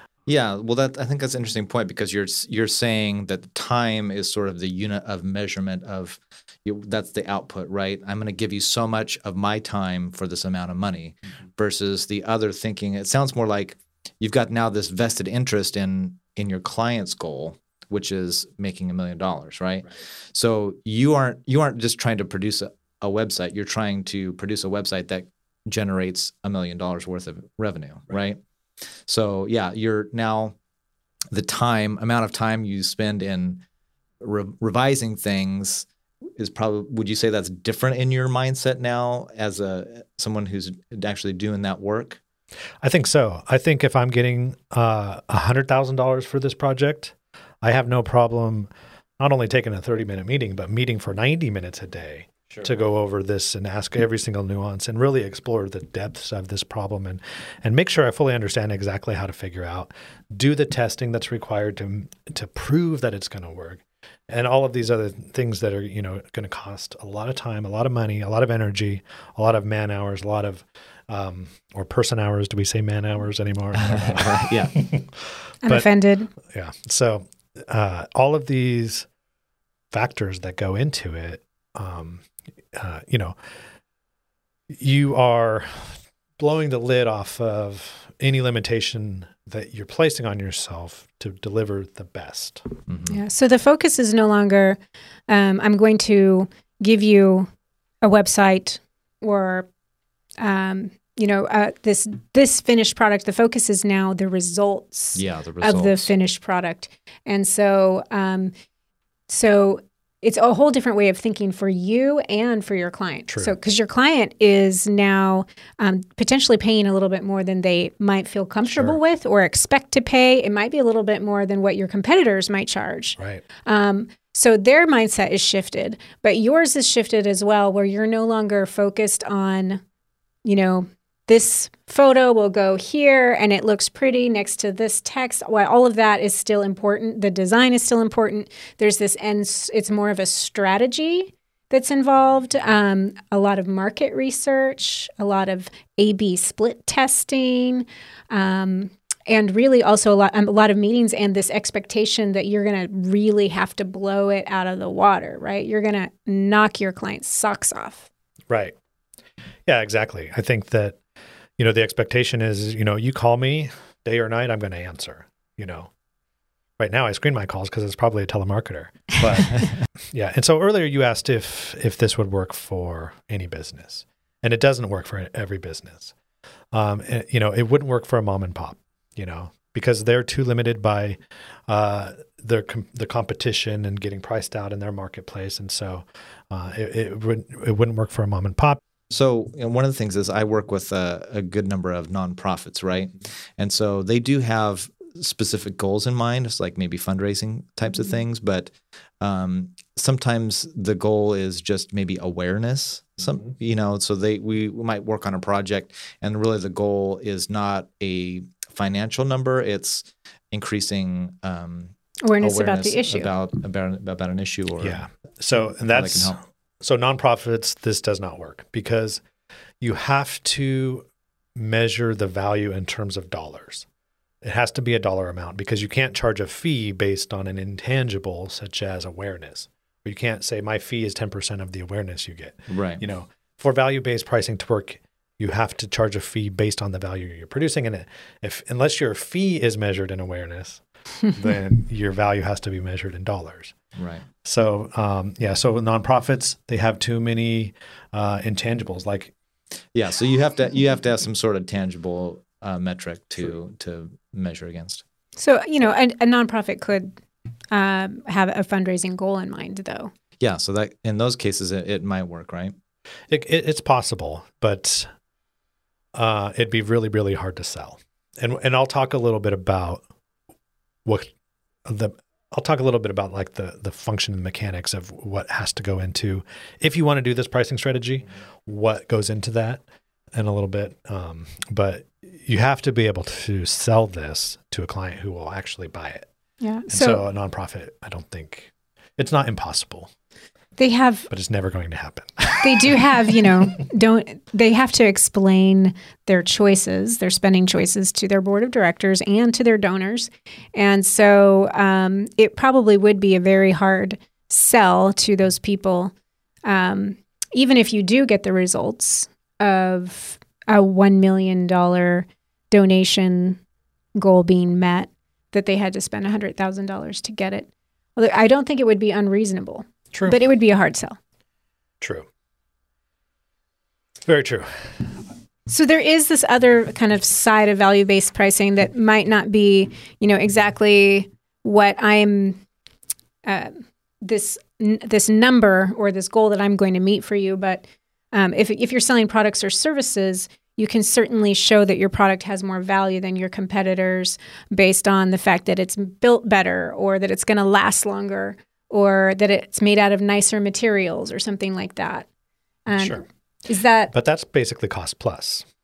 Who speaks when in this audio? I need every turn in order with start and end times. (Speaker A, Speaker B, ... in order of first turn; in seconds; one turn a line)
Speaker A: 0.2-28.4
Speaker A: 29.1-30.5
Speaker A: 31.3-33.6
Speaker A: 34.2-42.2
Speaker B: 42.8-79.1
Speaker A: 73.8-74.8
Speaker C: 75.6-76.3
Speaker B: 79.9-83.4
Speaker B: 84.7-92.6
Speaker A: 92.9-93.2
Speaker C: 93.1-97.5
Speaker C: 98.0-99.7
Speaker C: 100.4-108.5
Speaker A: 105.2-106.1
Speaker C: 109.3-129.8
Speaker B: 113.3-113.5
Speaker B: 118.7-119.0
Speaker B: 123.2-123.4
Speaker C: 130.4-158.1
Speaker B: 158.5-158.7
Speaker B: 159.7-161.0
Speaker B: 161.6-165.9
Speaker B: 166.8-176.1
Speaker B: 176.7-188.8
Speaker A: 189.1-215.0
Speaker C: 212.2-213.3
Speaker B: 214.8-219.2
Speaker A: 215.8-216.4
Speaker B: 219.8-223.9
Speaker B: 224.4-243.7
Speaker A: 232.7-233.0
Speaker A: 243.9-244.2
Speaker B: 244.4-249.3
Speaker A: 249.9-255.0
Speaker C: 255.4-257.1
Speaker C: 257.7-260.1
Speaker A: 260.4-262.7
Speaker B: 263.3-265.1
Speaker B: 266.1-270.0
Speaker B: 271.0-271.3
Speaker B: 271.8-279.8
Speaker B: 280.3-286.3
Speaker C: 286.6-287.2
Speaker B: 286.9-290.1
Speaker C: 290.8-291.3
Speaker B: 291.3-293.8
Speaker C: 292.6-306.1
Speaker C: 306.6-313.6
Speaker C: 314.2-321.2
Speaker B: 320.1-320.4
Speaker B: 322.0-322.3
Speaker B: 324.2-325.1
Speaker C: 325.7-332.6
Speaker C: 333.4-352.2
Speaker C: 352.9-354.1
Speaker B: 352.9-353.2
Speaker B: 354.1-355.7